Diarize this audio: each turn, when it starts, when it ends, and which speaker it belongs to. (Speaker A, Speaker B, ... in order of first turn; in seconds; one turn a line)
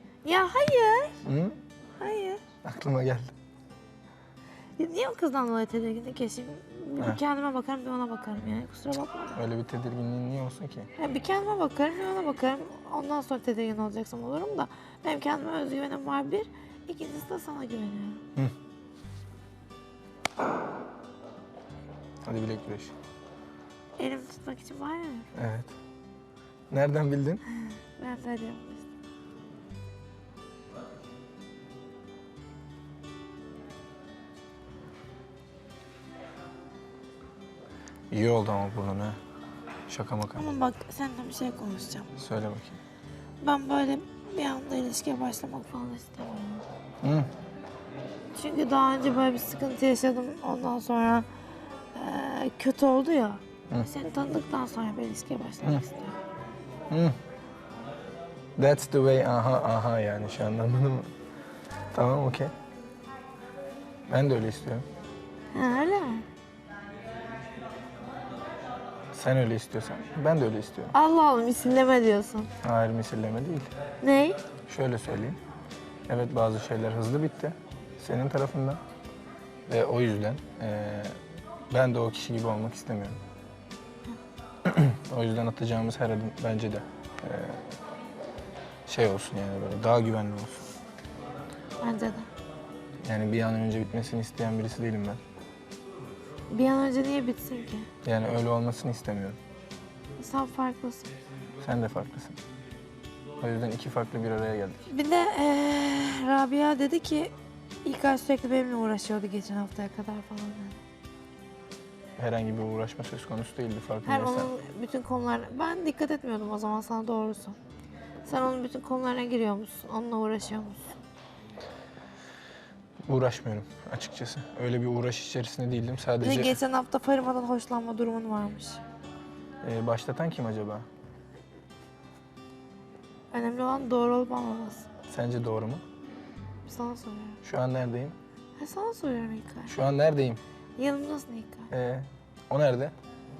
Speaker A: 0.2-1.2
Speaker B: 1.2-1.6
Speaker A: 2.0-2.4
Speaker B: 2.6-3.3
Speaker A: 4.8-9.4
Speaker B: 9.3-10.9
Speaker A: 11.0-18.2
Speaker B: 22.2-22.9
Speaker A: 24.0-25.3
Speaker B: 25.4-25.8
Speaker B: 26.7-27.4
Speaker A: 28.0-28.9
Speaker B: 38.1-39.2
Speaker B: 39.9-40.5
Speaker A: 40.4-42.1
Speaker B: 42.2-42.8
Speaker A: 43.4-46.6
Speaker B: 47.0-47.3
Speaker A: 48.3-51.3
Speaker A: 51.9-56.2
Speaker B: 56.9-57.2
Speaker B: 58.6-61.1
Speaker B: 61.9-62.5
Speaker B: 64.1-64.8
Speaker A: 65.5-66.3
Speaker B: 69.1-71.0
Speaker A: 70.9-72.5
Speaker B: 72.6-73.7
Speaker A: 74.0-74.4
Speaker B: 74.7-75.4
Speaker B: 76.1-78.8
Speaker B: 79.7-81.2
Speaker B: 81.7-83.2
Speaker B: 84.7-87.6
Speaker B: 88.9-90.7
Speaker A: 91.8-92.3
Speaker B: 93.0-95.2
Speaker A: 96.5-97.9
Speaker B: 98.0-99.4
Speaker A: 100.2-101.1
Speaker B: 101.6-102.4
Speaker B: 103.4-104.9
Speaker A: 104.9-110.8
Speaker B: 112.2-114.5
Speaker A: 114.0-117.6
Speaker A: 118.2-120.8
Speaker B: 123.1-126.6
Speaker A: 126.2-128.8
Speaker B: 129.6-130.9
Speaker A: 133.3-134.9
Speaker B: 135.1-135.8
Speaker A: 136.7-137.4
Speaker B: 137.4-138.2
Speaker A: 138.6-139.8
Speaker B: 139.7-140.4
Speaker A: 140.8-141.7
Speaker B: 141.7-142.9